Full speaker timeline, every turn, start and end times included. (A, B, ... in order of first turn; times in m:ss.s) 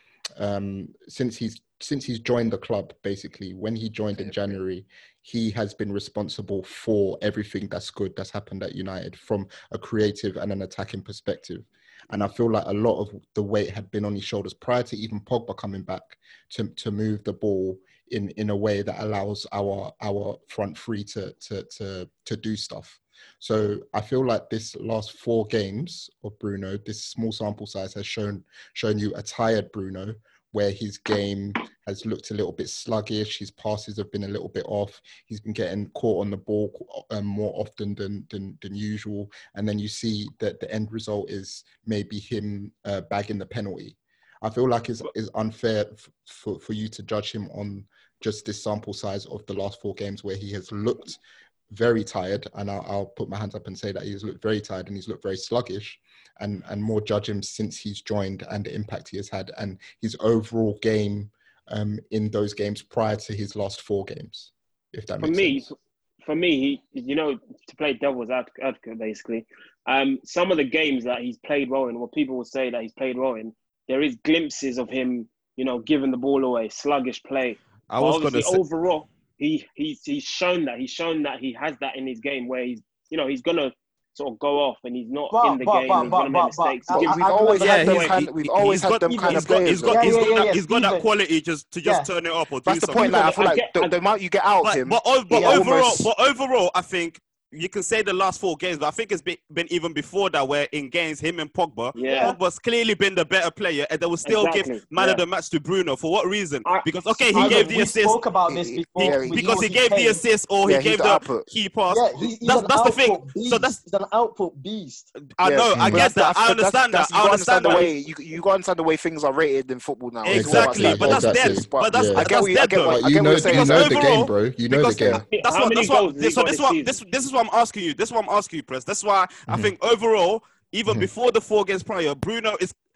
0:00.4-1:05.7 A
0:04.2-0:04.6 B
1:05.2-1:28.2 C
1:17.9-1:18.6 D
1:25.3-1:28.1 E
1:26.9-1:30.2 B
1:27.6-1:33.2 D
1:29.1-1:31.1 E
1:32.6-1:36.1 B
1:33.0-1:33.9 C
1:33.1-1:33.4 E
1:34.6-1:48.2 D
1:35.3-1:35.6 E
1:42.0-1:42.3 C
1:42.1-1:42.4 E
1:44.2-1:45.2 C
1:46.6-1:47.6 C
1:47.3-1:50.2 E
1:48.5-1:49.7 B
1:49.0-1:53.8 D
1:50.6-1:51.5 B
1:51.9-1:55.1 E
1:55.4-1:57.9 D
1:55.4-2:04.1 B
1:55.7-1:56.1 A
2:00.2-2:12.7 D
2:00.3-2:05.2 A
2:05.3-2:07.0 C
2:09.5-2:09.7 A